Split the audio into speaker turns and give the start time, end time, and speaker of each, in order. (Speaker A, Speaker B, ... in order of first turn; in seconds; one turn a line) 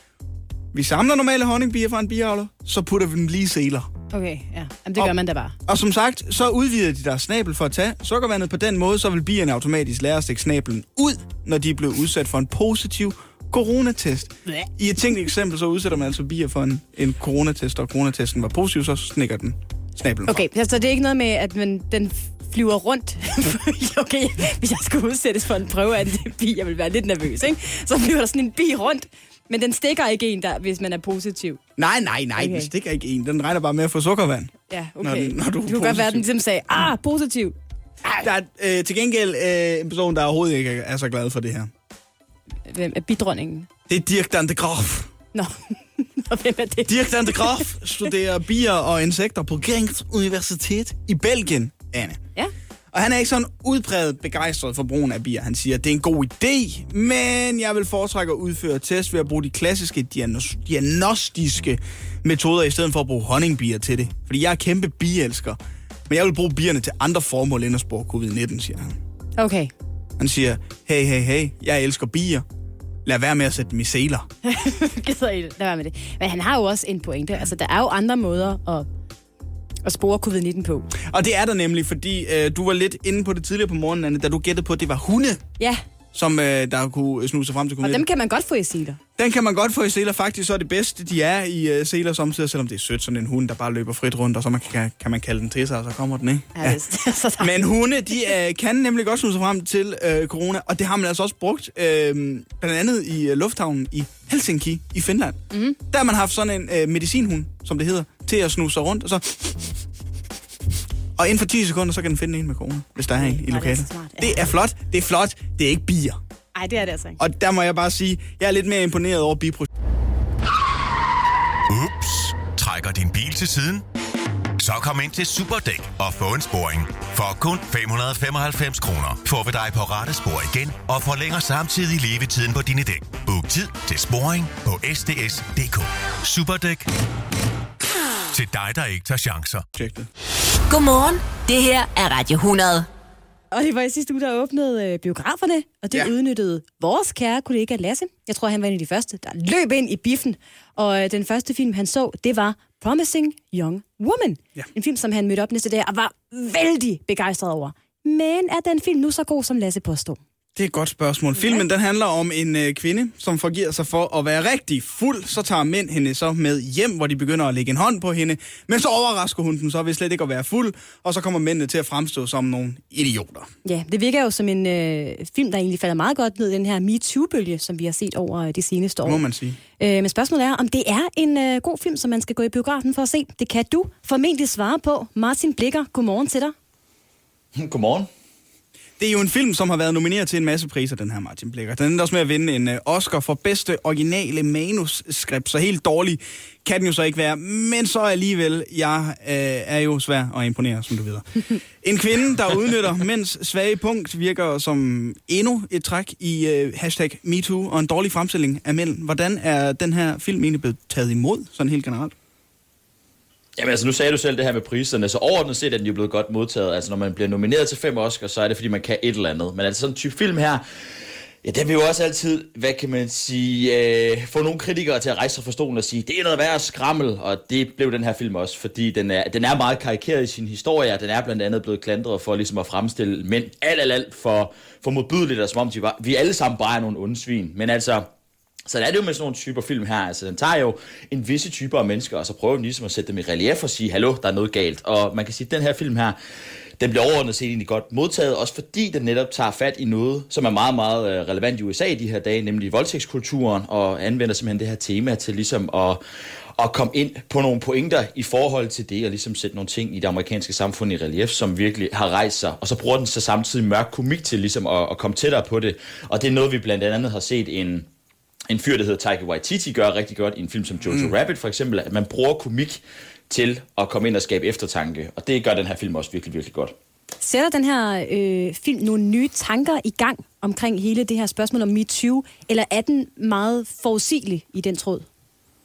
Speaker A: 0.7-3.9
Speaker B: 4.1-5.6
Speaker A: 5.0-20.4
Speaker B: 20.3-31.6
Speaker A: 31.8-36.3
Speaker B: 32.4-32.7
Speaker B: 34.7-38.3
Speaker A: 38.2-41.7
Speaker B: 42.7-43.7
Speaker A: 43.9-45.1
Speaker B: 45.3-47.7
Speaker A: 46.9-52.2
Speaker A: 52.9-69.0
Speaker B: 69.4-69.7
Speaker A: 70.2-72.4
Speaker A: 73.0-74.3
Speaker B: 74.4-78.9
Speaker B: 79.8-80.9
Speaker A: 81.0-85.4
Speaker A: 86.1-88.1
Speaker B: 87.8-89.0
Speaker A: 89.2-96.8
Speaker B: 96.6-97.6
Speaker A: 97.4-109.7
Speaker B: 105.5-105.8
Speaker A: 111.2-116.2
Speaker B: 113.1-114.4
Speaker B: 116.5-117.2
Speaker A: 117.2-119.7
Speaker C: 121.7-123.8
Speaker C: 124.6-136.9
Speaker C: 138.3-139.6
Speaker A: 139.8-140.1
Speaker D: 140.7-142.9
Speaker B: 143.5-160.2
Speaker A: 160.6-173.5
Speaker B: 161.4-161.6
Speaker B: 173.6-179.2
Speaker A: 179.0-179.6
Speaker B: 179.8-186.5
Speaker E: 187.5-188.1
Speaker A: 189.0-212.1
Speaker E: 213.6-220.6
Speaker E: 221.4-238.1
Speaker E: 238.7-246.2
Speaker E: 246.8-256.0
Speaker E: 256.6-267.9
Speaker E: 268.5-276.7
Speaker A: 270.9-271.1
Speaker B: 277.2-285.1